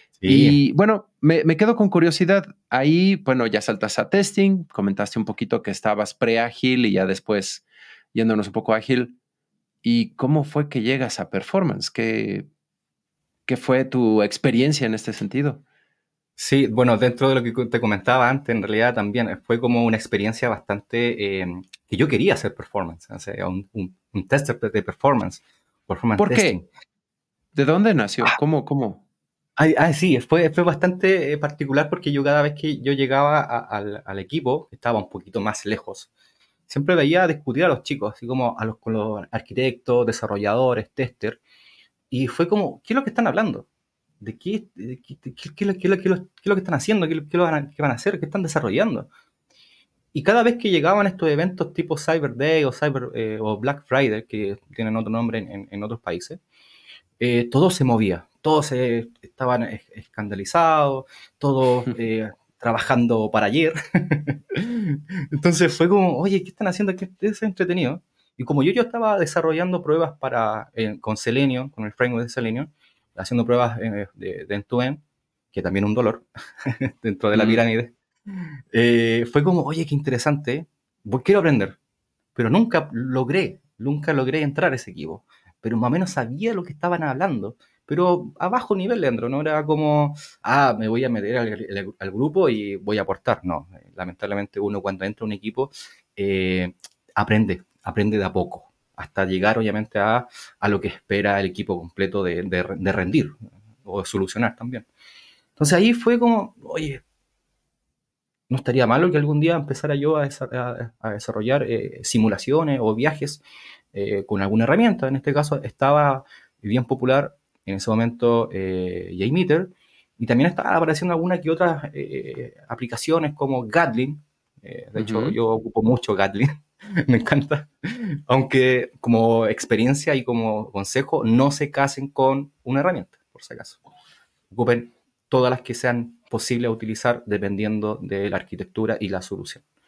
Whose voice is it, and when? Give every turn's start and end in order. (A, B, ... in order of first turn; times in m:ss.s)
0:00.2-0:00.6 A
0:00.3-0:09.2 B
0:09.8-0:12.5 B
0:13.5-0:15.6 B
0:16.4-0:26.7 A
0:26.2-0:26.6 B
0:27.6-0:29.0 B
0:29.6-0:36.1 A
0:36.7-0:41.4 A
0:42.1-0:43.7 A
0:44.2-0:49.1 A
0:50.1-0:56.4 A
0:57.2-1:21.8 A
1:17.3-1:17.6 B
1:22.4-1:44.9 A
1:45.6-1:47.0 A
1:48.5-1:53.4 A
1:53.9-2:13.8 A
2:05.0-2:05.4 B
2:14.5-2:19.6 A